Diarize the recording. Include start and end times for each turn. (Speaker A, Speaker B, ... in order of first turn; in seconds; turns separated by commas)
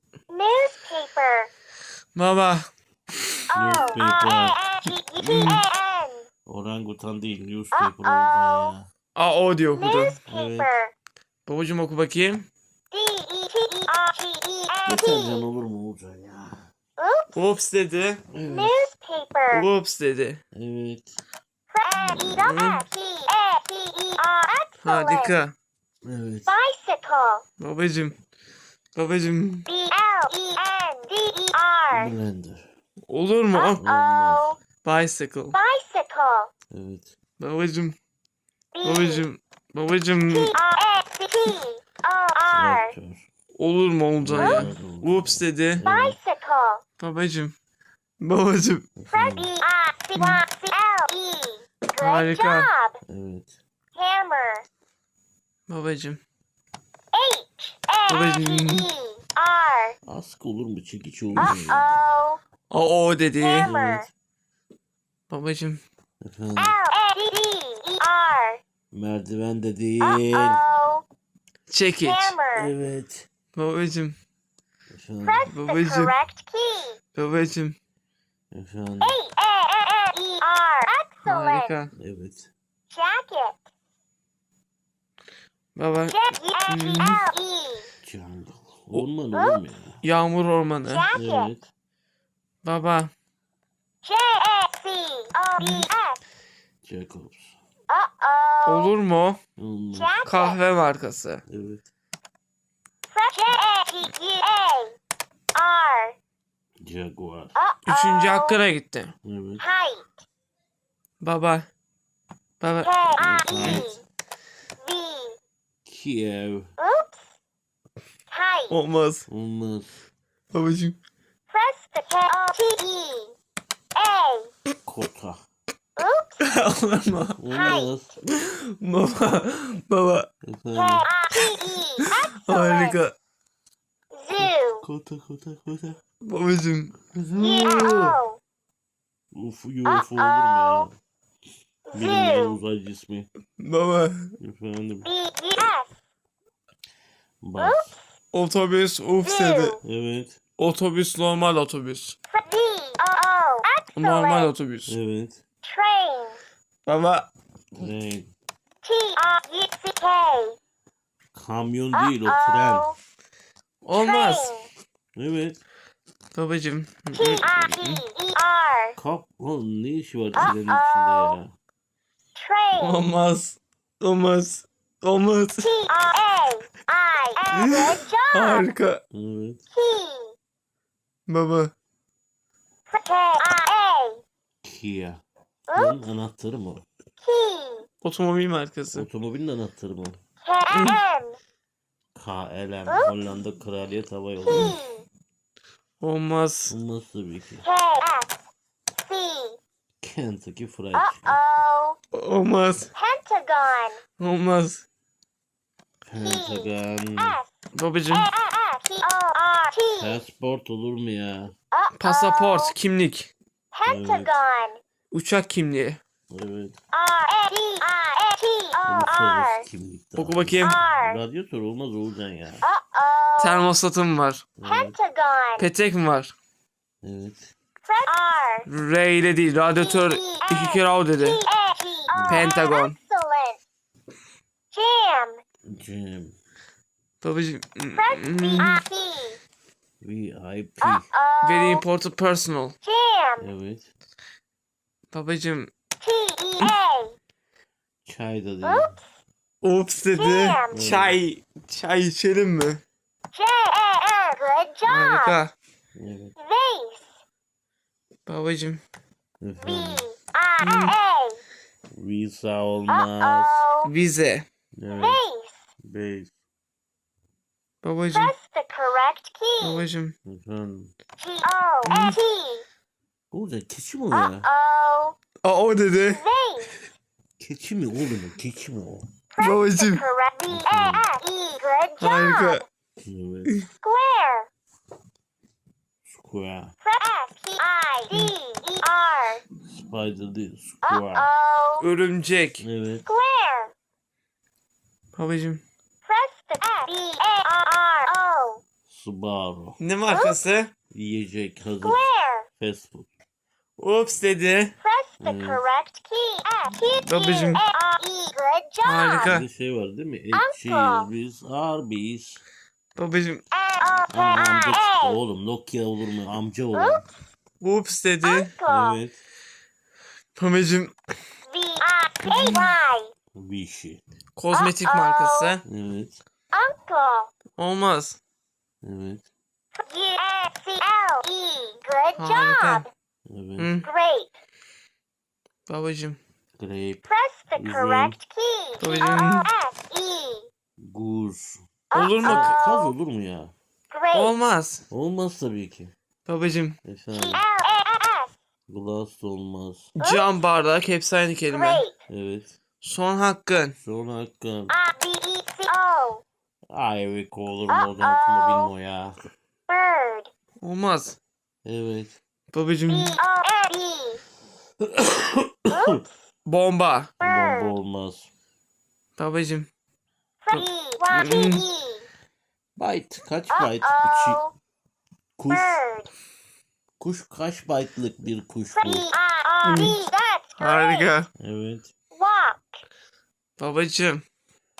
Speaker A: 0.3-1.5, Speaker B: 2.1-3.3, Speaker A: 3.5-6.3, Speaker C: 3.5-4.6, Speaker B: 5.2-5.6, Speaker C: 6.5-8.9, Speaker A: 7.7-8.7, Speaker B: 9.1-10.2, Speaker A: 9.7-10.9, Speaker C: 10.3-10.7, Speaker B: 11.4-12.4, Speaker A: 12.9-15.4, Speaker C: 14.8-16.7, Speaker A: 17.0-17.4, Speaker B: 17.3-18.2, Speaker C: 18.3-18.8, Speaker A: 18.4-19.7, Speaker B: 19.5-20.4, Speaker C: 20.5-21.1, Speaker A: 21.7-25.4, Speaker B: 22.2-22.8, Speaker B: 24.8-25.5, Speaker C: 26.0-26.5, Speaker A: 26.4-27.4, Speaker B: 27.6-28.1, Speaker B: 28.9-29.7, Speaker A: 29.6-32.1, Speaker C: 31.9-32.7, Speaker B: 33.1-33.8, Speaker A: 33.5-34.6, Speaker C: 33.8-34.5, Speaker B: 34.8-35.6, Speaker A: 35.5-36.5, Speaker C: 36.7-37.1, Speaker B: 37.4-38.0, Speaker A: 38.7-39.2, Speaker B: 38.8-40.6, Speaker A: 40.3-42.9, Speaker C: 42.5-43.3, Speaker B: 43.5-45.8, Speaker C: 44.2-46.2, Speaker A: 44.4-44.7, Speaker A: 45.8-46.8, Speaker B: 47.0-47.5, Speaker B: 48.2-48.9, Speaker C: 49.0-49.5, Speaker A: 49.1-53.0, Speaker B: 50.2-50.4, Speaker B: 52.0-52.7, Speaker C: 53.0-53.5, Speaker A: 53.9-54.7, Speaker B: 55.7-56.2, Speaker A: 57.1-60.0, Speaker B: 58.1-58.9, Speaker C: 60.0-62.0, Speaker A: 61.4-62.4, Speaker B: 62.7-63.7, Speaker A: 63.4-64.1, Speaker C: 63.6-64.1, Speaker B: 65.3-65.8, Speaker C: 66.2-66.8, Speaker A: 66.5-68.6, Speaker C: 68.9-70.6, Speaker A: 70.0-71.0, Speaker B: 71.7-72.3, Speaker A: 72.0-72.7, Speaker C: 72.5-73.3, Speaker B: 73.5-74.2, Speaker C: 74.9-75.5, Speaker A: 75.2-77.0, Speaker B: 75.5-76.1, Speaker B: 77.1-77.8, Speaker C: 78.5-79.2, Speaker A: 79.0-81.8, Speaker B: 81.2-81.9, Speaker C: 81.9-82.5, Speaker A: 82.9-83.6, Speaker B: 85.7-87.3, Speaker A: 86.1-87.9, Speaker C: 88.0-90.0, Speaker B: 90.0-91.1, Speaker A: 90.8-91.5, Speaker C: 91.1-91.7, Speaker B: 92.6-93.1, Speaker A: 94.0-96.2, Speaker B: 95.6-95.9, Speaker C: 96.8-97.5, Speaker A: 97.9-98.9, Speaker B: 98.7-99.4, Speaker C: 99.6-100.2, Speaker A: 99.9-100.6, Speaker B: 100.2-101.4, Speaker C: 101.5-101.8, Speaker A: 103.1-105.0, Speaker A: 105.5-106.2, Speaker C: 106.8-107.5, Speaker A: 107.5-108.6, Speaker B: 107.9-109.1, Speaker C: 109.2-109.6, Speaker A: 109.6-110.2, Speaker B: 111.2-111.7, Speaker B: 112.6-113.8, Speaker A: 112.8-114.0, Speaker C: 113.5-113.9, Speaker A: 114.8-115.4, Speaker C: 115.8-116.7, Speaker A: 116.8-117.3, Speaker A: 118.3-118.8, Speaker B: 118.7-119.3, Speaker C: 119.3-120.0, Speaker B: 120.5-121.0, Speaker A: 121.5-123.4, Speaker A: 124.0-124.5, Speaker C: 124.8-125.4, Speaker A: 126.0-126.5, Speaker B: 126.4-127.4, Speaker C: 127.4-128.1, Speaker A: 127.5-127.9, Speaker B: 128.3-130.3, Speaker C: 130.4-131.1, Speaker A: 130.7-133.0, Speaker B: 131.3-133.1, Speaker A: 134.1-134.8, Speaker C: 134.4-136.0, Speaker B: 136.2-137.0, Speaker C: 137.1-138.2, Speaker A: 137.4-138.4, Speaker C: 139.3-141.0, Speaker A: 139.8-140.9, Speaker A: 141.9-142.6, Speaker C: 141.9-143.3, Speaker B: 143.6-144.3, Speaker C: 144.4-145.1, Speaker A: 145.0-145.9, Speaker C: 147.4-147.9, Speaker A: 147.6-148.0, Speaker B: 148.3-149.8, Speaker A: 149.2-149.8, Speaker C: 149.8-150.4, Speaker B: 150.6-152.2, Speaker A: 152.3-154.5, Speaker B: 154.0-154.9, Speaker C: 154.9-155.4, Speaker A: 155.6-156.4, Speaker B: 156.8-157.3, Speaker C: 157.7-158.3, Speaker A: 158.8-160.6, Speaker C: 161.3-162.9, Speaker A: 161.9-163.0, Speaker B: 163.8-164.6, Speaker A: 163.9-164.7, Speaker C: 165.2-165.6, Speaker B: 166.3-168.0, Speaker A: 167.1-169.0, Speaker C: 169.0-171.5, Speaker A: 170.4-171.4, Speaker A: 172.3-173.0, Speaker B: 172.8-175.7, Speaker A: 175.6-178.7, Speaker B: 177.5-179.0, Speaker C: 179.1-179.6, Speaker A: 179.7-180.3, Speaker B: 181.3-181.7, Speaker A: 182.9-184.2, Speaker C: 184.6-185.2, Speaker A: 185.7-186.0, Speaker C: 185.7-186.8, Speaker A: 187.2-187.9, Speaker B: 188.0-189.1, Speaker C: 188.9-190.2, Speaker A: 190.4-191.4, Speaker B: 190.7-191.0, Speaker C: 192.1-194.8, Speaker A: 194.4-195.1, Speaker B: 196.0-196.7, Speaker C: 196.7-197.6, Speaker A: 197.6-198.4, Speaker A: 199.0-199.6, Speaker C: 200.0-201.4, Speaker A: 200.9-202.0, Speaker B: 202.1-202.9, Speaker A: 202.9-204.0, Speaker B: 204.2-204.8, Speaker C: 206.0-207.4, Speaker A: 206.2-207.5, Speaker B: 207.7-208.3, Speaker A: 208.1-210.2, Speaker C: 210.0-211.5, Speaker A: 211.7-212.7, Speaker B: 212.0-213.3, Speaker A: 213.7-214.8, Speaker C: 213.8-214.3, Speaker B: 215.1-216.0, Speaker C: 216.3-216.8, Speaker A: 216.9-219.7, Speaker C: 218.8-222.6, Speaker B: 220.2-220.8, Speaker A: 220.6-221.2, Speaker A: 222.6-223.7, Speaker B: 223.4-224.4, Speaker C: 224.6-224.9, Speaker A: 224.6-225.7, Speaker B: 225.6-226.3, Speaker C: 227.0-227.5, Speaker A: 227.8-228.7, Speaker B: 228.7-231.4, Speaker A: 229.8-233.6, Speaker C: 232.1-232.5, Speaker B: 232.3-232.9, Speaker A: 234.7-235.4, Speaker C: 235.6-236.3, Speaker B: 237.2-238.8, Speaker A: 237.9-239.4, Speaker C: 240.0-241.1, Speaker A: 240.8-241.8, Speaker B: 241.4-242.7, Speaker A: 242.8-243.5, Speaker C: 243.4-243.9, Speaker B: 245.1-245.7, Speaker A: 246.0-247.2, Speaker C: 248.0-248.9, Speaker A: 248.6-249.0, Speaker B: 249.6-252.8, Speaker A: 250.1-250.9, Speaker C: 250.7-251.2, Speaker A: 253.3-255.4, Speaker B: 254.8-255.5, Speaker C: 255.9-256.3, Speaker A: 256.4-257.2, Speaker B: 258.2-258.8, Speaker C: 259.4-260.0, Speaker A: 259.6-261.4, Speaker B: 260.6-260.9, Speaker C: 261.9-263.6, Speaker A: 262.9-263.9, Speaker B: 263.8-264.4, Speaker C: 264.7-265.2, Speaker A: 264.9-265.6, Speaker C: 265.8-266.3, Speaker B: 267.8-268.3, Speaker A: 268.1-269.8, Speaker B: 269.6-270.1, Speaker C: 270.2-270.9, Speaker A: 271.2-272.6, Speaker B: 271.9-272.2, Speaker C: 273.3-274.5, Speaker A: 274.1-275.1, Speaker B: 275.4-276.2, Speaker A: 276.0-276.7, Speaker C: 277.4-279.1, Speaker A: 279.3-282.6, Speaker B: 279.4-280.0, Speaker C: 280.5-281.1, Speaker B: 282.0-282.6, Speaker C: 283.0-283.5, Speaker A: 283.8-284.5, Speaker C: 286.0-286.7, Speaker A: 286.8-289.4, Speaker C: 289.6-291.3, Speaker A: 290.8-291.9, Speaker B: 291.8-292.6, Speaker C: 292.6-293.0, Speaker A: 293.0-293.7, Speaker B: 295.1-295.6, Speaker A: 296.0-298.6, Speaker C: 298.9-299.8, Speaker B: 299.8-300.7, Speaker A: 300.1-300.4, Speaker C: 300.9-303.1, Speaker A: 301.8-302.5, Speaker B: 303.8-304.7, Speaker A: 304.8-309.4, Speaker C: 305.2-305.6, Speaker B: 306.9-307.6, Speaker B: 308.8-309.4, Speaker C: 309.2-312.4, Speaker A: 310.3-311.1, Speaker B: 312.9-313.4, Speaker A: 313.5-315.2, Speaker C: 314.1-317.0, Speaker A: 316.7-317.0, Speaker B: 317.6-318.5, Speaker A: 318.2-319.0, Speaker C: 318.6-319.2, Speaker B: 320.4-320.9, Speaker A: 321.5-323.1, Speaker B: 322.2-322.7, Speaker C: 323.3-324.0, Speaker B: 324.4-325.6, Speaker A: 324.5-325.6, Speaker C: 325.6-326.2, Speaker A: 326.5-327.3, Speaker B: 327.6-328.2, Speaker C: 328.8-329.2, Speaker A: 329.7-332.9, Speaker B: 332.2-332.8, Speaker C: 333.2-333.7, Speaker B: 333.6-333.9, Speaker A: 333.8-334.4, Speaker B: 335.7-336.2, Speaker C: 336.6-338.2, Speaker A: 337.0-340.5, Speaker B: 338.8-339.5, Speaker C: 340.8-341.7, Speaker A: 341.9-342.9, Speaker B: 341.9-342.6, Speaker C: 342.2-343.5, Speaker A: 343.9-344.3, Speaker B: 344.1-344.8, Speaker C: 344.9-345.9, Speaker B: 346.2-346.8, Speaker C: 346.8-347.4, Speaker A: 347.1-348.3, Speaker C: 348.7-349.9, Speaker B: 349.9-351.8, Speaker A: 350.0-350.2, Speaker A: 351.5-352.0, Speaker C: 352.1-352.5, Speaker B: 352.8-353.8, Speaker C: 353.8-354.7, Speaker A: 354.7-356.2, Speaker C: 356.7-359.1, Speaker A: 357.7-358.7, Speaker A: 359.7-360.3, Speaker B: 360.6-361.2, Speaker C: 361.6-362.1, Speaker B: 362.5-363.2, Speaker A: 362.9-364.2, Speaker C: 364.8-366.0, Speaker A: 365.7-366.1, Speaker B: 366.4-367.1, Speaker C: 367.2-368.3, Speaker A: 367.2-367.7, Speaker B: 369.2-369.7, Speaker A: 370.4-372.1, Speaker B: 370.5-371.6, Speaker C: 372.8-374.4, Speaker A: 373.5-374.5, Speaker C: 375.4-375.8, Speaker A: 375.5-376.1, Speaker C: 377.0-379.1, Speaker A: 378.8-381.1, Speaker B: 379.6-380.0, Speaker B: 380.6-381.3, Speaker C: 381.4-381.9, Speaker A: 382.1-382.8, Speaker B: 383.6-384.2